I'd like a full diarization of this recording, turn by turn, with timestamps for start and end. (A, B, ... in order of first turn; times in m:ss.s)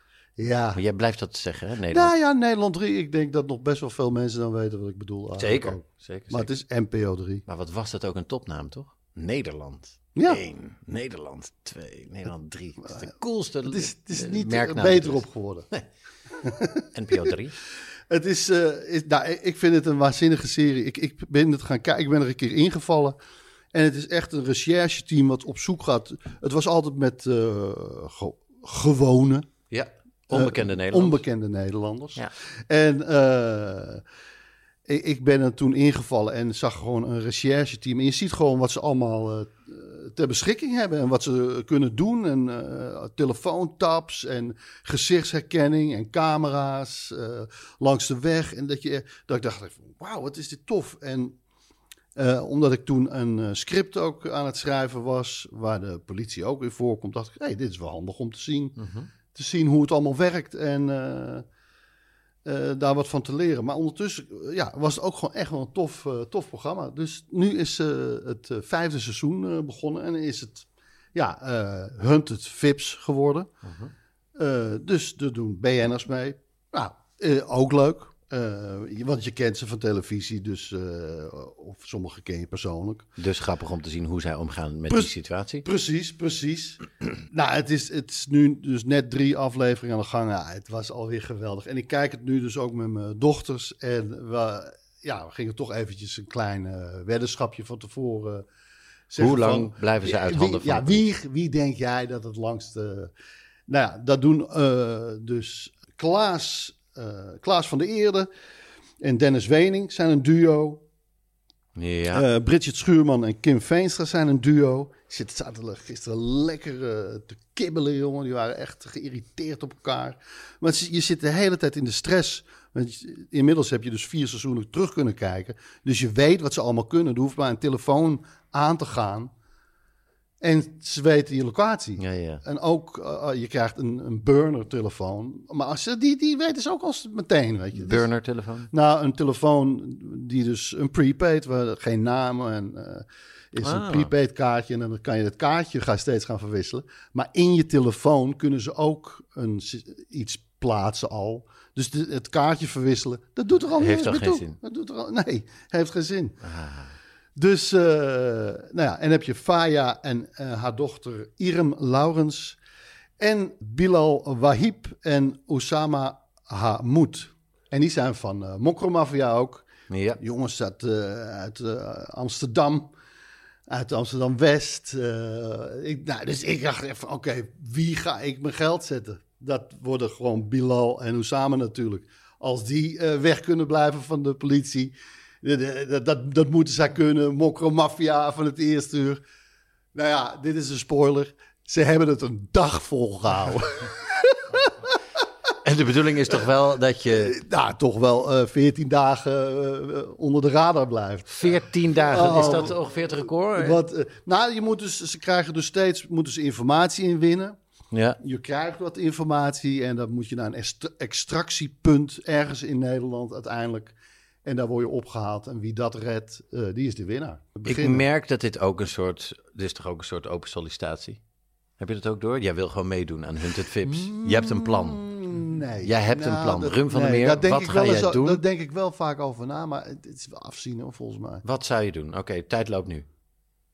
0:00.4-0:00.8 A
0:00.8-0:02.1 B
0:01.9-0:07.4 A
0:05.4-0:06.5 B
0:07.5-0:15.8 B
0:10.2-0:10.4 A
0:13.6-0:15.7 A
0:16.4-0:17.4 A
0:16.9-0:17.6 B
0:18.1-0:23.2 A
0:23.7-0:29.5 A
0:29.7-0:31.2 B
0:30.3-0:34.0 A
0:34.9-0:51.4 A
0:52.2-1:01.5 A
0:58.8-0:59.1 B
1:02.4-1:13.5 A
1:13.6-1:13.9 B
1:14.4-1:23.1 A
1:23.2-1:25.7 B
1:25.6-1:38.5 A
1:39.1-1:43.1 A
1:39.2-1:41.0 B
1:43.7-1:48.3 A
1:49.0-1:50.8 A
1:51.8-1:52.2 B
1:52.1-2:09.3 A
2:10.4-2:18.1 A
2:12.0-2:12.4 B
2:17.8-2:18.7 B
2:18.7-2:36.4 A
2:23.6-2:24.1 B
2:33.8-2:34.6 B
2:36.4-2:37.0 B
2:37.4-2:42.6 A
2:43.2-2:52.9 A
2:49.9-2:50.2 B
2:53.7-3:09.2 A
3:09.9-3:15.0 A
3:15.6-3:17.4 B
3:17.1-3:27.6 A
3:21.3-3:23.8 B
3:27.9-3:28.2 B
3:28.2-3:38.1 A
3:37.7-3:41.2 B
3:41.8-3:45.0 B
3:43.8-3:51.4 A
3:45.8-3:48.4 B
3:51.4-3:53.1 B